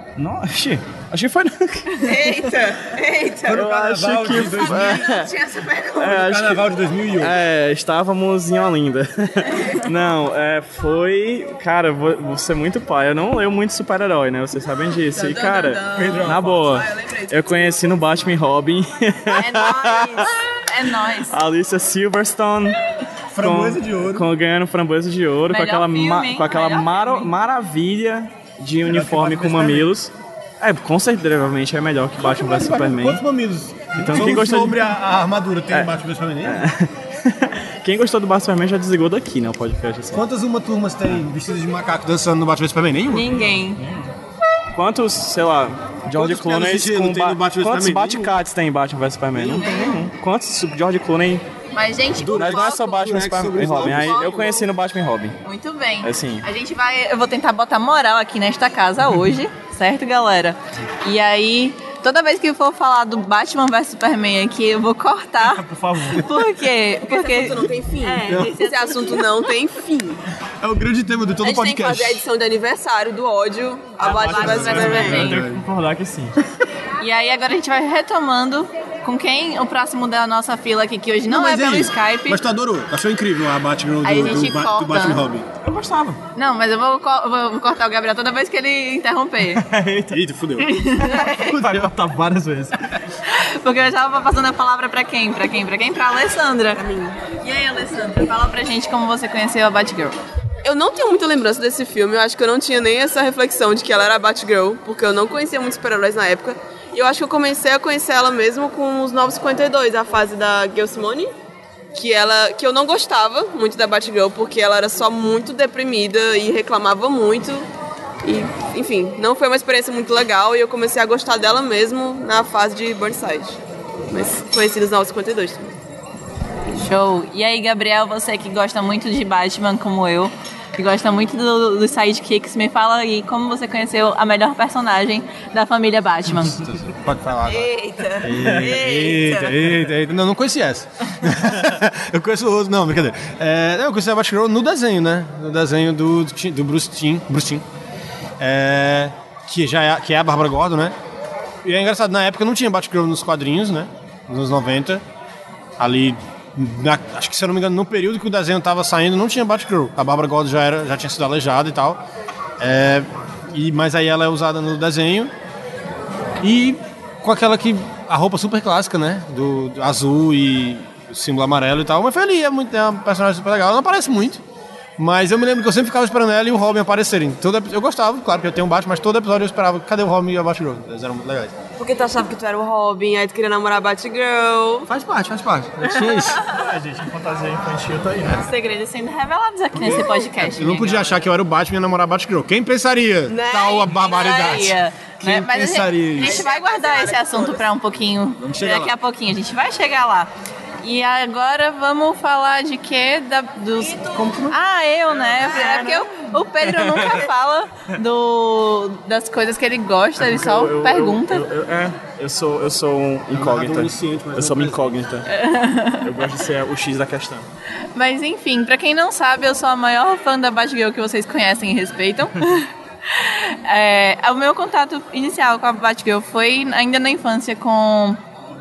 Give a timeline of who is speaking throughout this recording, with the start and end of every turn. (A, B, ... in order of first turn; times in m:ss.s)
0:00.2-0:02.2 A
0:02.0-0:03.6 B
0:03.5-0:05.3 C
0:03.5-0:05.3 A
0:04.4-0:06.1 B
0:06.0-0:06.6 A
0:06.0-0:07.4 C
0:07.2-0:20.4 A
0:15.2-0:16.2 D
0:15.2-0:17.7 B
0:15.9-0:16.7 C
0:19.3-0:20.4 B
0:19.4-0:21.4 D
0:21.2-0:22.8 A
0:23.3-0:24.3 C
0:23.4-0:33.2 A
0:25.5-0:27.3 D
0:28.8-0:29.9 C
0:32.2-0:36.6 C
0:34.0-0:34.9 A
0:36.4-0:40.2 A
0:40.1-0:43.4 C
0:43.1-0:43.8 D
0:43.8-0:44.1 A
0:44.7-0:51.4 A
0:46.1-0:48.4 C
0:49.3-0:49.8 C
0:49.6-0:50.0 D
0:51.7-0:52.9 D
0:52.2-0:54.3 C
0:52.2-0:55.4 A
0:54.0-0:54.5 B
0:55.4-1:09.3 D
0:56.0-0:56.4 A
1:05.4-1:06.3 A
1:07.0-1:10.2 B
1:08.3-1:08.5 C
1:10.6-1:12.2 C
1:11.4-1:15.3 B
1:14.0-1:16.4 A
1:14.1-1:15.4 D
1:14.4-1:15.7 C
1:17.0-1:22.4 D
1:21.3-1:25.5 C
1:24.0-1:25.2 D
1:25.6-1:26.2 A
1:26.4-1:29.7 D
1:29.4-1:30.2 A
1:30.1-1:30.8 C
1:30.6-1:31.5 D
1:31.4-1:31.9 C
1:31.5-1:32.9 A
1:33.3-1:36.8 D
1:36.8-1:37.2 B
1:37.4-1:40.2 D
1:40.6-1:51.3 B
1:52.0-1:57.7 B
1:58.2-2:03.6 B
2:04.1-2:05.7 B
2:06.7-2:16.6 D
2:16.4-2:27.6 C
2:17.4-2:19.8 B
2:18.4-2:18.7 A
2:28.4-2:31.0 C
2:31.6-2:35.0 C
2:35.8-2:42.0 C
2:42.6-2:45.3 C
2:46.4-2:54.4 C
2:55.0-3:01.6 C
3:01.8-3:04.9 B
3:04.9-3:06.5 C
3:06.4-3:08.5 A
3:08.3-3:11.2 D
3:09.8-3:16.4 C
3:13.3-3:14.7 B
3:14.4-3:20.3 D
3:16.2-3:17.7 B
3:18.4-3:18.9 C
3:20.8-3:31.4 D
3:23.8-3:24.2 B
3:24.1-3:24.6 C
3:25.2-3:26.1 A
3:26.6-3:27.3 A
3:30.2-3:35.3 A
3:33.3-3:34.9 C
3:35.3-3:36.1 D
3:36.0-3:37.5 A
3:38.0-3:48.2 D